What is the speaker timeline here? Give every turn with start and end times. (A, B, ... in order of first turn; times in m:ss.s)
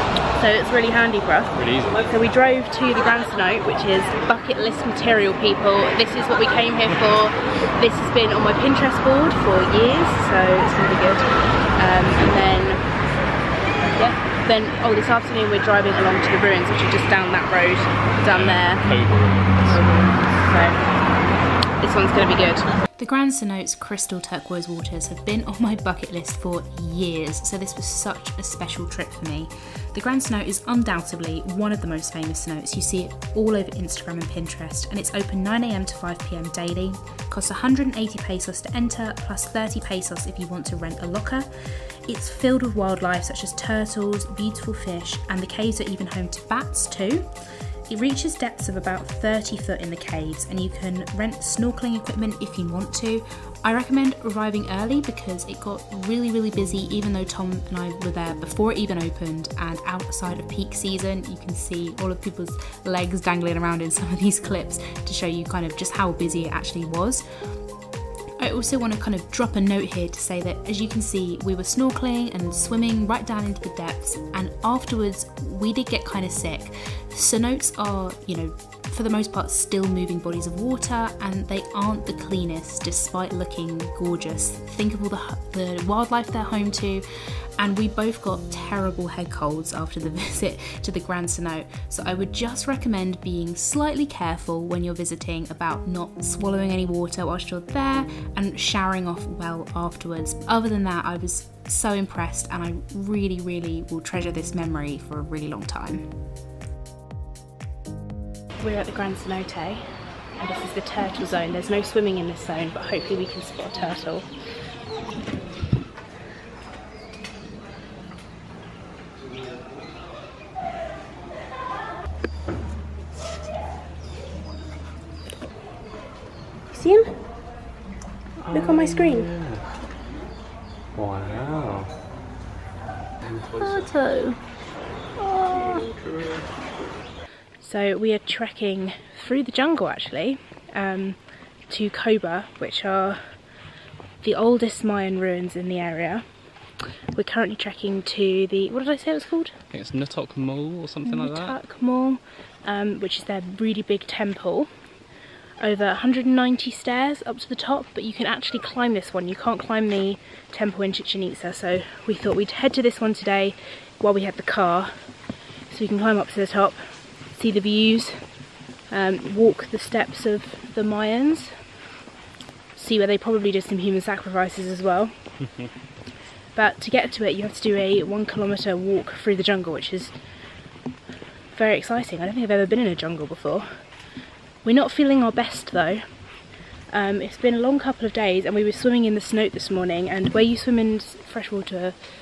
0:00.4-0:12.8 A
0:01.5-0:02.0 B
0:13.9-0:18.8 A
0:18.2-0:19.8 B
0:19.6-0:20.8 A
0:21.8-0:22.8 A
0:23.0-0:47.3 C
0:47.9-1:07.2 C
1:08.4-1:27.0 C
1:27.6-1:46.0 C
1:48.6-1:54.3 A
2:06.7-2:07.2 A
2:08.4-2:09.8 B
2:08.5-2:09.3 A
2:10.9-2:11.9 B
2:13.2-2:13.8 B
2:13.6-2:14.4 A
2:15.2-2:15.8 A
2:15.5-2:16.5 B
2:17.6-2:23.3 A
2:24.2-2:26.2 A
2:27.1-2:29.6 A
2:29.7-2:31.6 B
2:31.0-2:34.7 A
2:35.6-2:44.9 A
2:45.7-2:46.8 A
2:47.3-2:48.2 A
2:48.9-2:51.6 A
2:52.7-2:55.1 A
2:56.5-3:00.1 A
3:01.5-3:03.7 A
3:04.6-3:06.4 A
3:06.9-3:12.0 A